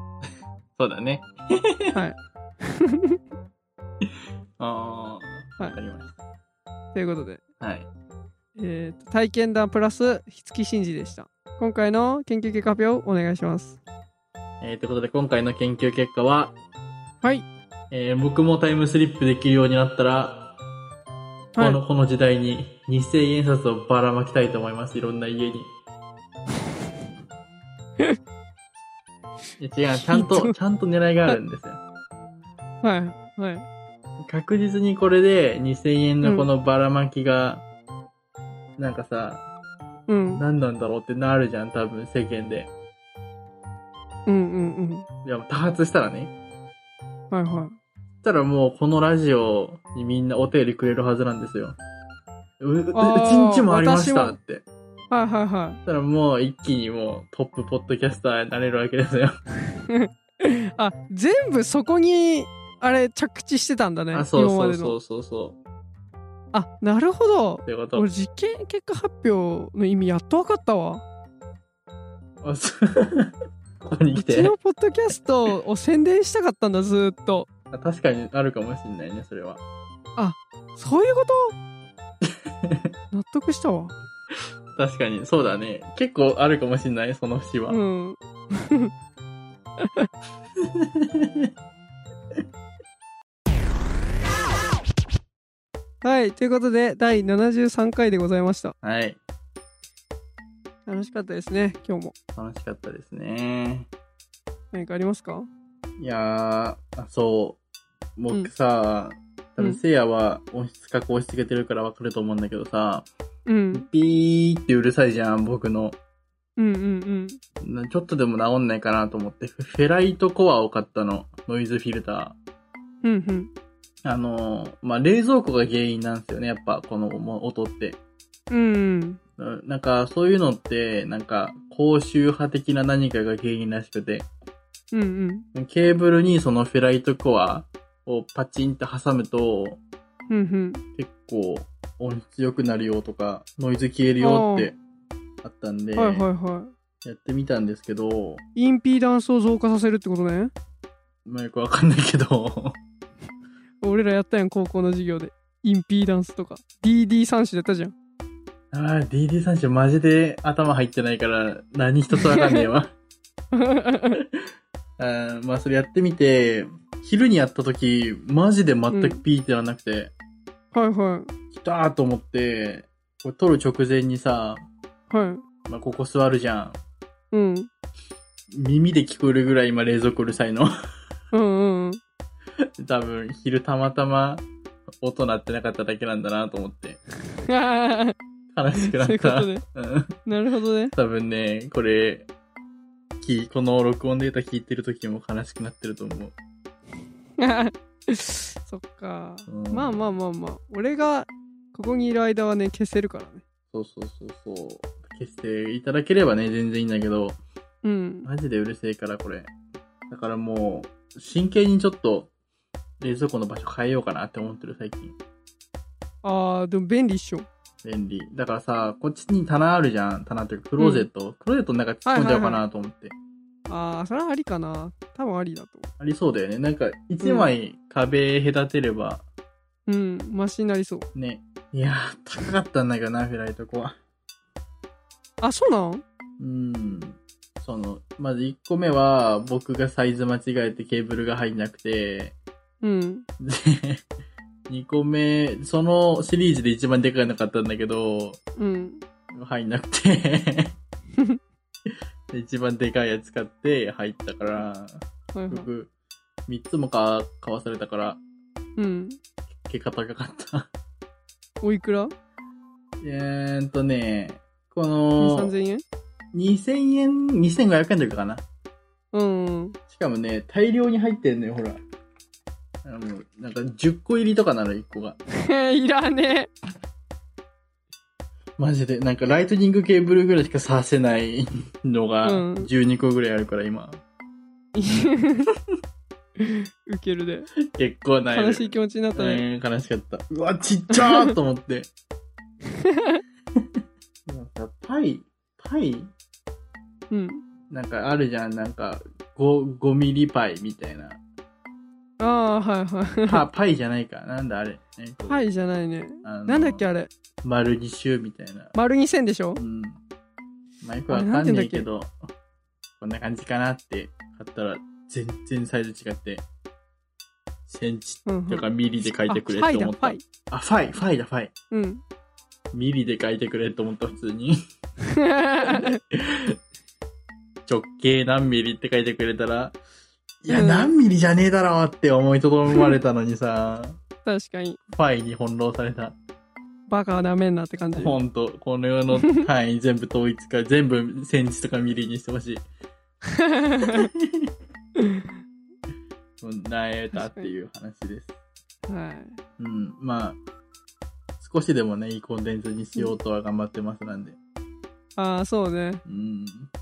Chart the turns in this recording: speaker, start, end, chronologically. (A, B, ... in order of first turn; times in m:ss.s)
0:00.8-0:02.0 A
0:01.9-0:03.2 B
0:04.6-0:06.1 A
0:06.9-0:07.4 B
0:07.6-0:07.9 A
0:08.6-0:13.8 B
0:14.6-0:16.6 A
0:17.9-0:20.5 A
0:21.6-0:21.8 B
0:21.6-0:25.7 A
0:29.6-0:31.8 A
0:30.0-0:30.6 B
0:32.8-0:33.6 B
0:34.2-0:37.6 A
0:36.2-0:36.5 B
0:38.8-0:39.4 A
0:40.1-0:40.4 B
0:40.3-0:42.7 A
0:44.3-0:45.1 B
0:45.2-0:46.3 A
0:47.3-0:47.8 B
0:48.2-0:51.8 A
0:52.6-0:54.6 A
0:52.9-0:54.4 B
0:55.1-0:55.8 B
0:55.9-0:59.4 A
0:59.8-1:05.0 B
1:04.1-1:05.6 A
1:06.5-1:11.0 B
1:07.7-1:08.1 A
1:12.4-1:14.5 A
1:14.2-1:17.5 B
1:17.7-1:19.6 A
1:20.2-1:21.6 B
1:22.2-1:22.9 A
1:23.1-1:23.9 B
1:24.8-1:27.8 A
1:27.7-1:28.9 B
1:29.8-1:30.1 B
1:30.6-1:31.5 A
1:36.0-1:38.7 B
1:38.8-1:39.2 A
1:40.9-1:42.1 B
1:42.4-1:43.9 A
1:44.7-1:45.5 B
1:46.0-1:47.6 A
1:48.2-1:53.1 A
1:53.5-1:53.9 B
1:53.7-1:56.0 A
1:56.6-1:57.4 B
1:57.6-2:02.4 A
2:03.0-2:03.5 B
2:04.0-2:08.0 A
2:08.5-2:09.2 B
2:09.4-2:14.3 A
2:14.9-2:15.5 B
2:15.6-2:19.8 A
2:20.3-2:20.8 B
2:21.0-2:24.8 A
2:24.2-2:24.7 B
2:25.4-2:26.3 A
2:26.0-2:26.7 B
2:27.0-2:28.4 A
2:28.6-2:30.5 B
2:31.2-2:32.8 A
2:33.8-2:37.9 B
2:38.7-2:42.9 A
2:42.1-2:42.7 B
2:43.5-2:44.2 B
2:44.2-2:44.4 A
2:45.0-2:50.1 A
2:48.9-2:49.2 B
2:50.7-2:51.3 B
2:51.5-2:54.6 A
2:55.1-2:55.4 B
2:55.7-2:56.8 A
2:57.3-2:57.7 B
2:58.5-3:00.7 A
3:01.3-3:02.0 B
3:02.8-3:04.5 A
3:05.0-3:07.0 A
3:07.4-3:08.2 B
3:08.5-3:10.2 A
3:08.7-3:09.6 B
3:10.3-3:10.9 B
3:10.9-3:12.3 A
3:13.2-3:16.4 A
3:17.4-3:23.4 B
3:19.5-3:20.0 A
3:23.7-3:27.4 A
3:27.8-3:28.3 B
3:28.2-3:29.5 A
3:30.1-3:32.3 A
3:33.0-3:35.2 A
3:36.2-3:37.5 B
3:37.8-3:43.2 A
3:40.8-3:41.1 B
3:42.1-3:42.6 B
3:43.7-3:45.9 B
3:46.0-3:49.2 A
3:47.2-3:47.5 B
3:49.9-3:51.1 B
3:51.2-3:54.0 A
3:55.4-3:56.0 B
3:56.4-4:02.4 A
4:02.8-4:03.3 B
4:03.4-4:04.0 A
4:04.7-4:08.4 A
4:08.6-4:09.0 B
4:09.3-4:10.8 A
4:11.9-4:15.9 A
4:15.3-4:15.7 B
4:16.5-4:18.2 A
4:18.8-4:19.2 B
4:19.7-4:20.7 A
4:21.6-4:22.1 B
4:23.0-4:25.5 A
4:25.2-4:25.8 B
4:26.3-4:28.4 A
4:29.1-4:29.8 B
4:29.9-4:31.8 A
4:32.8-4:35.2 A
4:35.3-4:36.5 B
4:38.6-4:44.0 A
4:42.2-4:42.7 B
4:44.8-4:45.5 B
4:46.4-4:47.5 B
4:47.6-4:51.9 A
4:48.3-4:49.4 B
4:50.9-4:51.3 B
4:52.7-4:53.2 B
4:54.3-4:56.1 A
4:57.1-4:57.4 B
4:57.7-5:01.2 A
5:02.2-5:03.4 B
5:03.2-5:05.4 A
5:05.3-5:07.1 B
5:06.2-5:06.8 A
5:07.4-5:08.7 A
5:08.7-5:09.6 B
5:09.6-5:10.0 A
5:10.8-5:12.2 A
5:11.1-5:11.9 B
5:13.0-5:16.4 A
5:17.7-5:21.5 A
5:18.3-5:18.7 B
5:19.3-5:20.2 B
5:21.7-5:22.0 B
5:22.7-5:24.6 A
5:25.0-5:26.0 B
5:25.6-5:26.6 A
5:27.7-5:29.8 A
5:30.4-5:34.0 A
5:30.5-5:30.9 B
5:34.2-5:34.8 B
5:35.0-5:36.2 A
5:36.9-5:38.2 B
5:38.0-5:42.6 A
5:39.2-5:39.5 B
5:43.3-5:44.1 B
5:43.8-5:44.5 A
5:45.0-5:45.3 B
5:46.4-5:48.3 A
5:47.2-5:47.5 B
5:48.9-5:49.4 B
5:49.6-5:50.4 A
5:51.4-5:54.4 A
5:55.2-5:56.0 B
5:56.0-5:56.7 A